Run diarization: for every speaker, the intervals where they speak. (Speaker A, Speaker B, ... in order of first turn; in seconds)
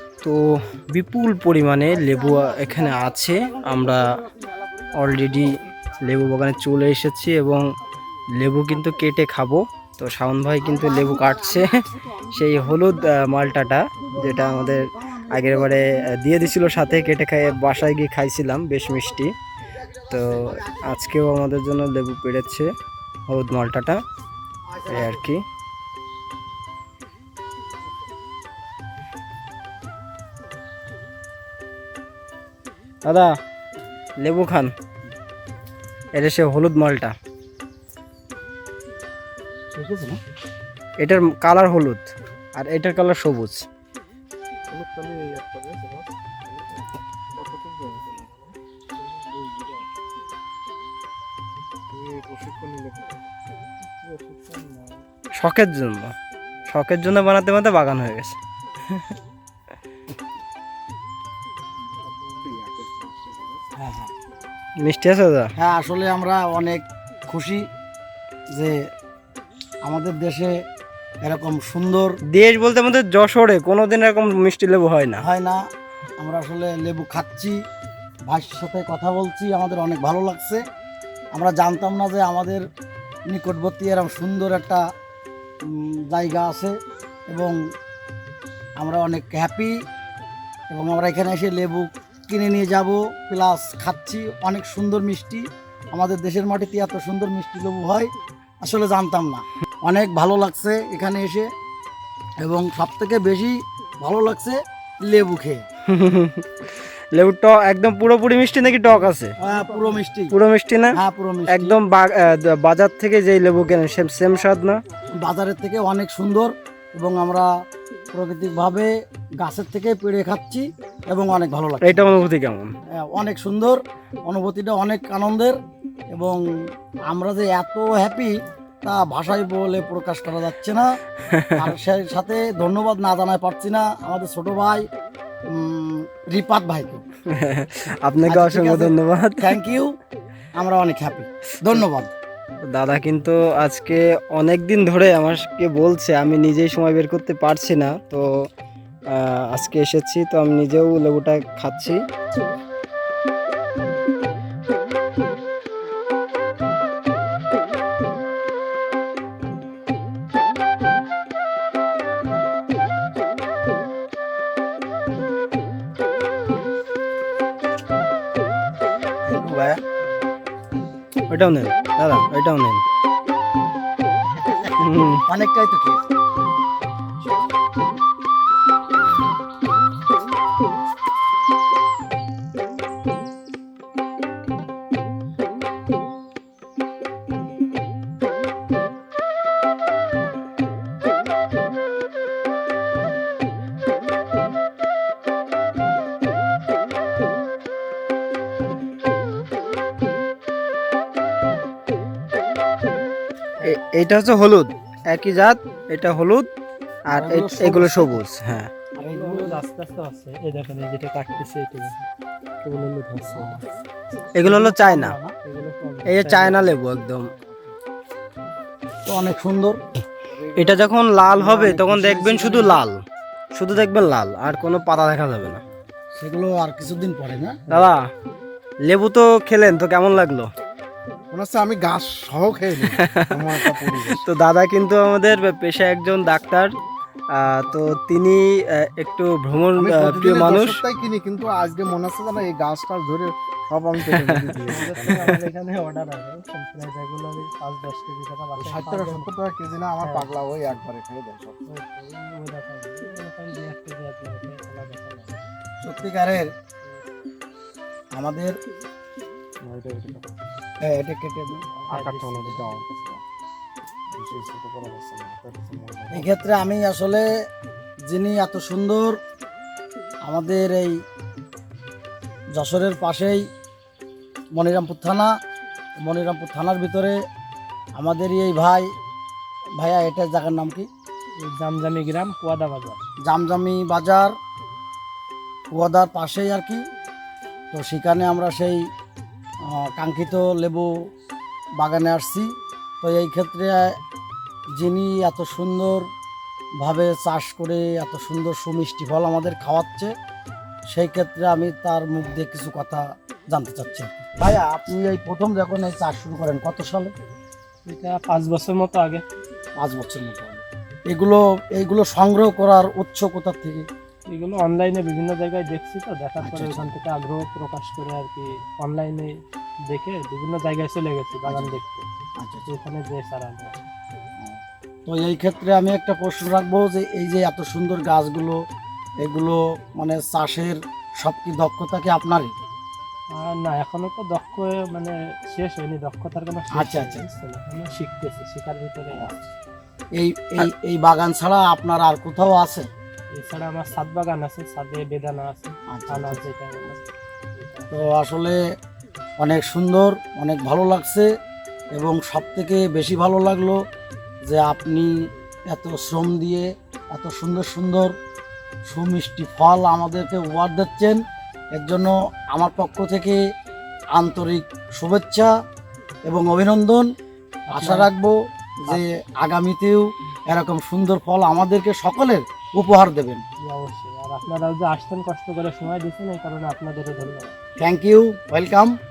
Speaker A: 0.2-4.2, 4.9-7.7, 8.4-19.3, 20.1-22.7, 23.3-24.0, 24.9-25.4, 33.0-33.3, 34.2-34.7, 36.1-37.1, 41.0-43.7, 55.3-56.1, 56.7-58.4, 64.8-65.5, 72.3-75.2, 105.9-106.5, 107.2-109.3, 110.3-111.0, 111.5-114.8, 121.8-122.7, 131.3-131.7, 137.3-139.6, 142.7-148.3, 149.1-152.0, 171.3-172.8, 174.8-175.2, 203.6-206.5, 207.1-208.7, 214.3-215.1, 216.1-217.3, 220.6-223.0, 223.6-225.6, 227.7-228.0, 228.8-230.5, 232.9-236.8, 237.3-240.8
Speaker B: 39.8-40.2, 63.8-64.1, 65.6-67.7, 69.8-70.5, 71.2-72.2, 75.2-75.6, 76.2-77.6, 78.3-80.6, 81.3-82.6, 83.3-84.8, 85.7-86.8, 87.3-87.6, 88.8-89.8, 90.7-98.1, 98.6-101.5, 102.4-105.6, 109.4-110.3, 110.9-111.8, 115.2-117.5, 118.1-122.2, 123.0-125.6, 126.1-126.4, 127.1-131.0, 131.6-134.9, 135.5-137.0, 138.3-139.9, 140.6-142.1, 169.3-169.8, 175.2-176.0, 207.1-208.2, 209.0-209.6, 214.4-215.3, 219.1-219.8, 221.3-222.8, 226.2-227.8, 255.8-256.5, 258.1-258.6, 260.8-261.6, 266.1-267.3, 268.1-269.2, 270.2-270.9, 272.5-273.5, 274.6-275.3, 276.0-277.2, 278.0-278.9, 279.8-280.9, 283.2-284.3, 285.7-286.8, 287.7-288.8, 289.7-290.9, 291.8-292.5, 293.0-294.0, 294.8-296.1, 296.8-300.1, 300.9-307.1, 309.8-313.9, 316.4-316.9, 321.5-321.8, 322.4-322.7, 324.4-328.6, 329.2-332.5, 336.8-337.3, 340.2-342.9, 345.9-346.4, 347.9-348.6, 349.4-351.3, 351.9-353.8, 354.5-355.1, 355.7-358.1, 358.9-361.2, 361.8-363.4, 364.1-365.5, 366.3-367.1, 367.7-368.4, 368.9-373.4, 377.8-378.9
Speaker C: 44.7-46.1, 47.3-49.9, 51.9-53.2, 54.0-55.0, 61.9-63.6, 217.4-217.7, 220.3-220.9, 231.3-234.2, 239.8-245.4, 248.6-251.6, 259.6-260.3, 261.8-263.2, 264.1-266.5
Speaker D: 209.0-212.1, 212.6-213.6, 215.4-216.8, 244.7-249.3, 250.0-250.3, 251.7-255.4, 261.9-262.7, 281.4-283.0, 307.9-309.2, 314.3-319.4, 319.9-322.1, 322.7-323.9, 333.3-339.4, 343.3-347.9, 367.7-368.1, 373.6-377.5